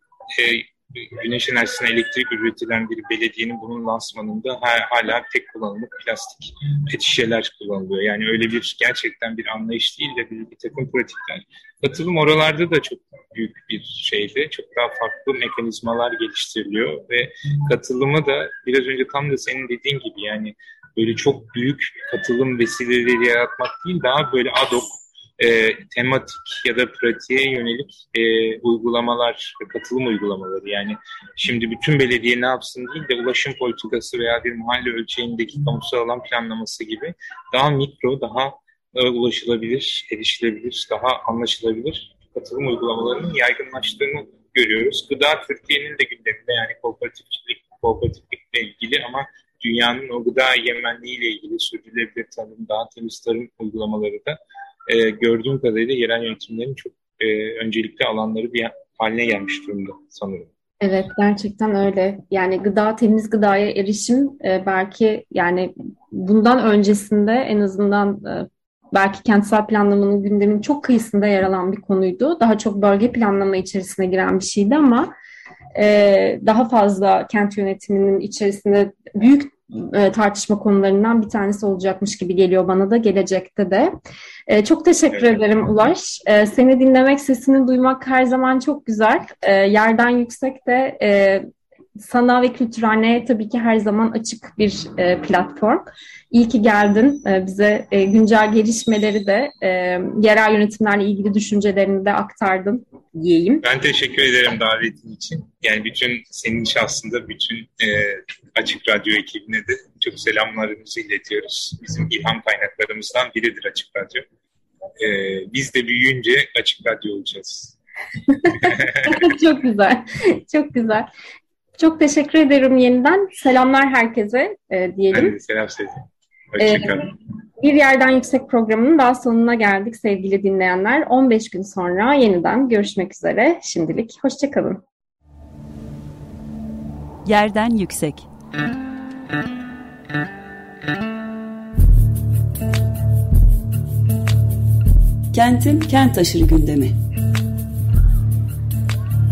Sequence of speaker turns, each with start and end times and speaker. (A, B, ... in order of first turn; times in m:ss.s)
0:00.3-1:00.5 A
1:00.8-1:15.1 B
1:15.8-1:23.9 B
1:24.5-1:31.4 B
1:32.0-1:43.6 B
1:43.6-1:54.2 A
1:55.0-1:57.8 A
1:58.4-2:01.1 B
1:58.6-1:59.2 A
2:01.8-2:05.4 B
2:05.1-2:07.1 A
2:06.6-2:07.0 B
2:07.6-2:14.8 B
2:17.2-2:18.3 C
2:25.3-2:26.9 C